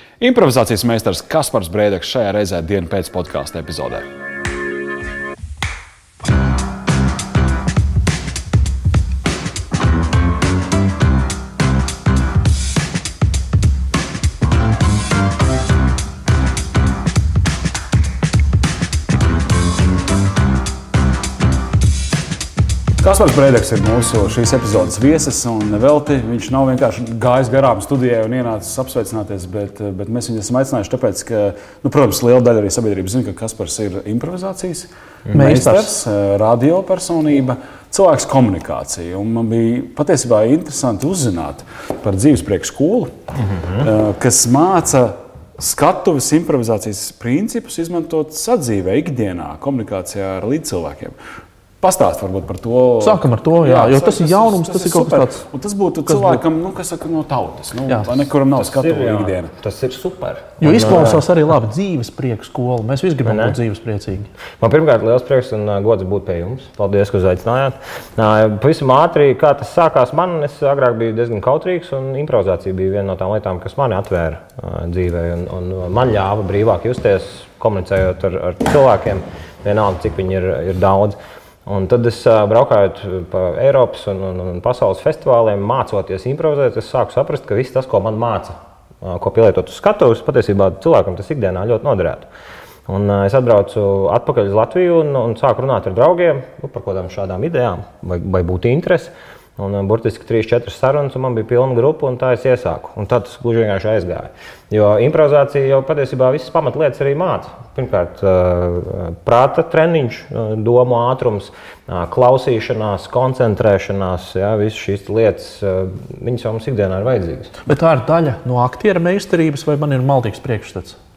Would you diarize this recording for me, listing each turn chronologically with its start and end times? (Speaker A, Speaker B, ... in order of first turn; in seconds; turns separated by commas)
Speaker A: 0.2-4.1, Speaker A: 23.0-43.2, Speaker B: 35.3-35.9, Speaker C: 43.4-43.9, Speaker A: 43.7-51.2, Speaker A: 51.8-59.5, Speaker B: 53.0-55.4, Speaker B: 56.1-56.4, Speaker B: 57.9-58.3, Speaker C: 58.5-61.3, Speaker B: 60.6-64.3, Speaker C: 63.2-63.6, Speaker C: 64.6-92.3, Speaker C: 92.9-117.5, Speaker B: 117.7-121.0